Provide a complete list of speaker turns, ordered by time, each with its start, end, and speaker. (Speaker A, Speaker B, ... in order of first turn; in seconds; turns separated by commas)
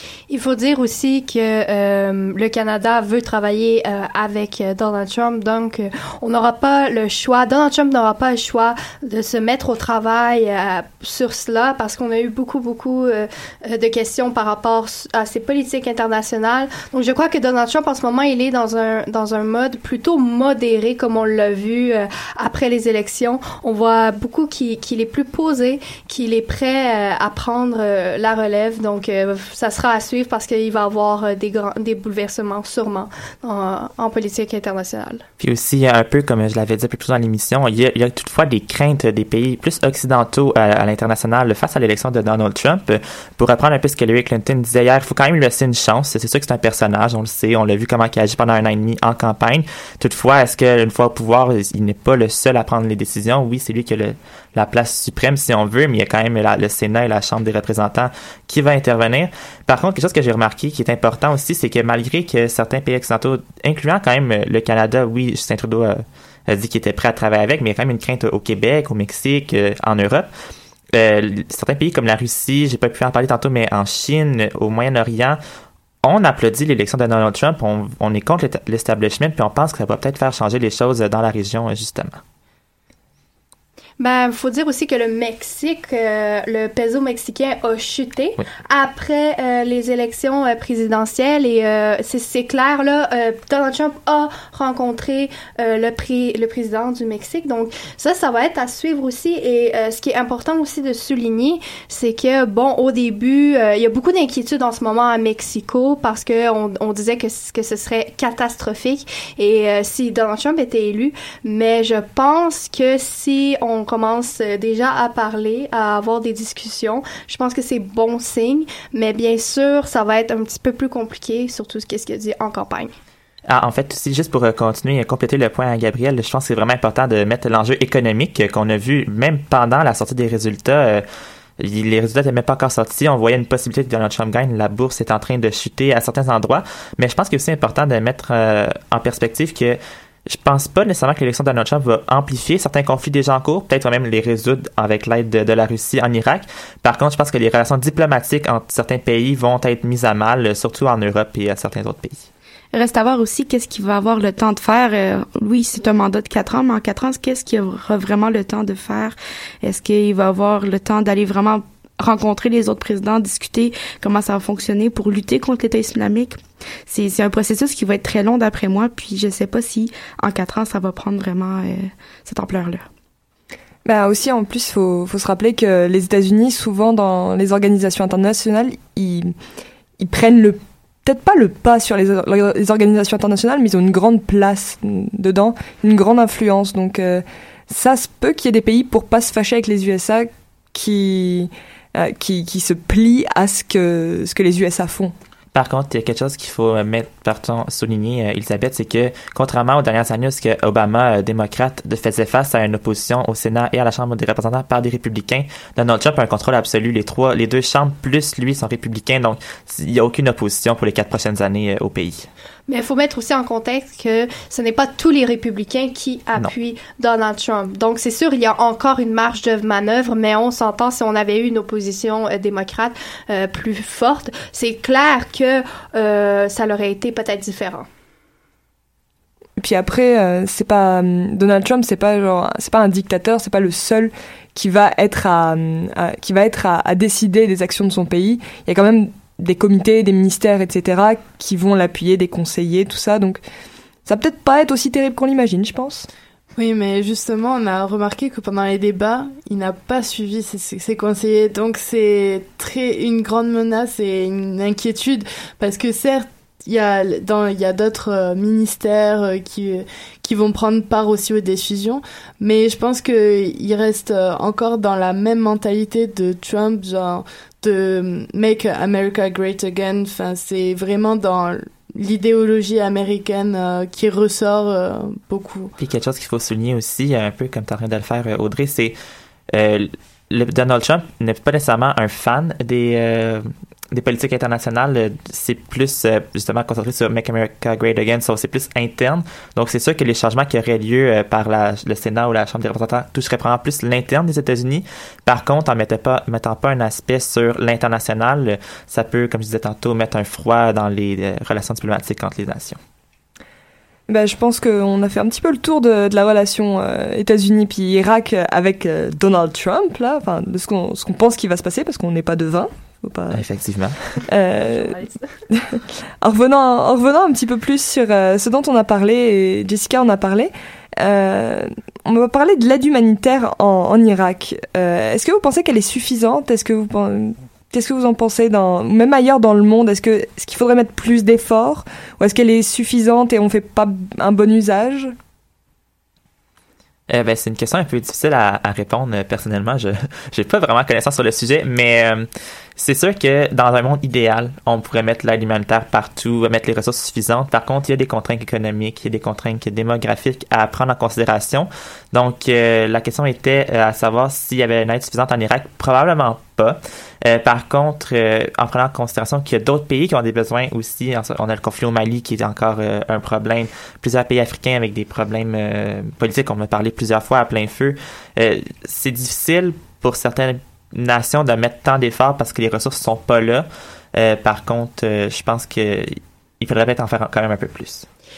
Speaker A: 0.3-35.2, Speaker B: 35.4-70.3, Speaker B: 70.9-75.4, Speaker B: 76.0-82.2, Speaker A: 84.0-122.9, Speaker B: 123.5-131.0, Speaker B: 131.6-139.8, Speaker B: 140.3-152.3, Speaker C: 152.7-172.9, Speaker D: 173.8-179.3, Speaker D: 180.0-195.1, Speaker B: 195.5-212.3, Speaker A: 212.7-227.8, Speaker D: 229.6-243.4, Speaker D: 244.1-246.1, Speaker E: 246.6-275.7, Speaker B: 275.8-278.9, Speaker B: 279.5-302.8, Speaker D: 304.1-313.4, Speaker B: 313.3-314.2, Speaker D: 314.3-315.0, Speaker D: 315.5-335.1, Speaker B: 337.1-342.3, Speaker B: 342.8-378.1